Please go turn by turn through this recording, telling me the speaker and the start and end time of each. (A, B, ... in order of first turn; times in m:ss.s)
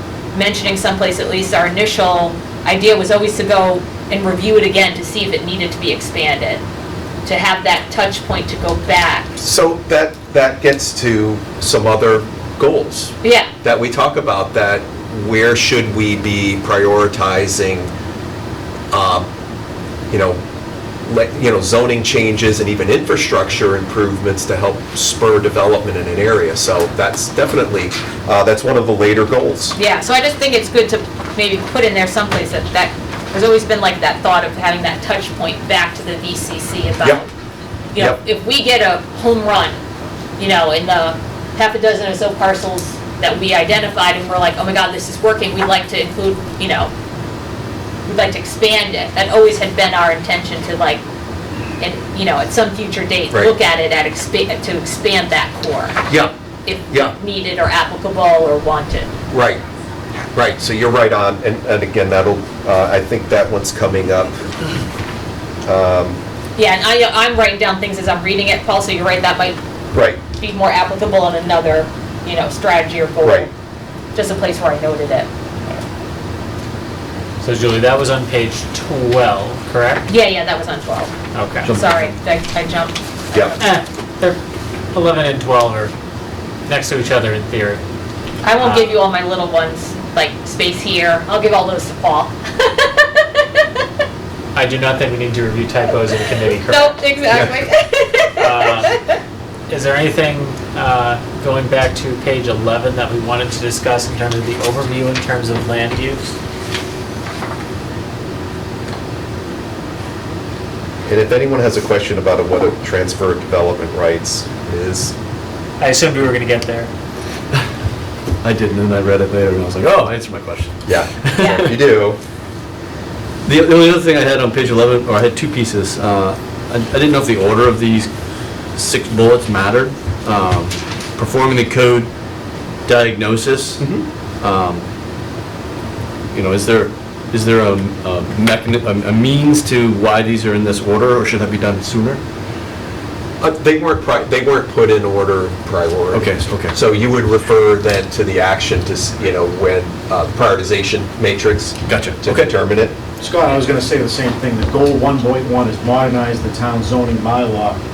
0:00.3-0:06.6 A
0:07.2-0:09.4 A
0:09.4-0:17.9 B
0:13.2-0:13.5 A
0:18.9-0:19.3 B
0:20.1-0:20.4 B
0:21.1-0:29.8 B
0:29.8-0:37.3 A
0:37.9-0:39.8 A
0:40.4-0:46.9 A
0:48.1-0:51.0 A
0:51.8-0:56.0 A
0:56.6-0:59.1 A
0:59.3-0:59.6 B
1:00.3-1:04.4 B
1:05.6-1:06.2 B
1:06.6-1:09.6 A
1:09.9-1:10.2 B
1:10.4-1:13.5 A
1:13.2-1:13.5 B
1:14.2-1:15.3 A
1:17.4-1:20.1 C
1:20.1-1:21.1 A
1:21.3-1:21.8 C
1:21.7-1:23.6 A
1:23.6-1:24.4 C
1:24.9-1:25.9 C
1:26.7-1:27.8 C
1:28.4-1:33.6 A
1:28.6-1:29.0 C
1:34.6-1:37.0 C
1:36.7-1:39.1 A
1:38.4-1:39.0 C
1:39.7-1:46.3 C
1:51.1-1:55.1 B
1:55.8-1:56.9 C
1:58.4-2:01.7 D
2:00.9-2:02.2 B
2:03.4-2:08.1 D
2:08.8-2:12.1 D
2:12.9-2:13.9 D
2:14.4-2:14.9 D
2:16.3-2:22.2 D
2:23.4-2:32.9 B
2:26.1-2:26.8 D
2:31.9-2:32.6 D
2:33.2-2:37.8 E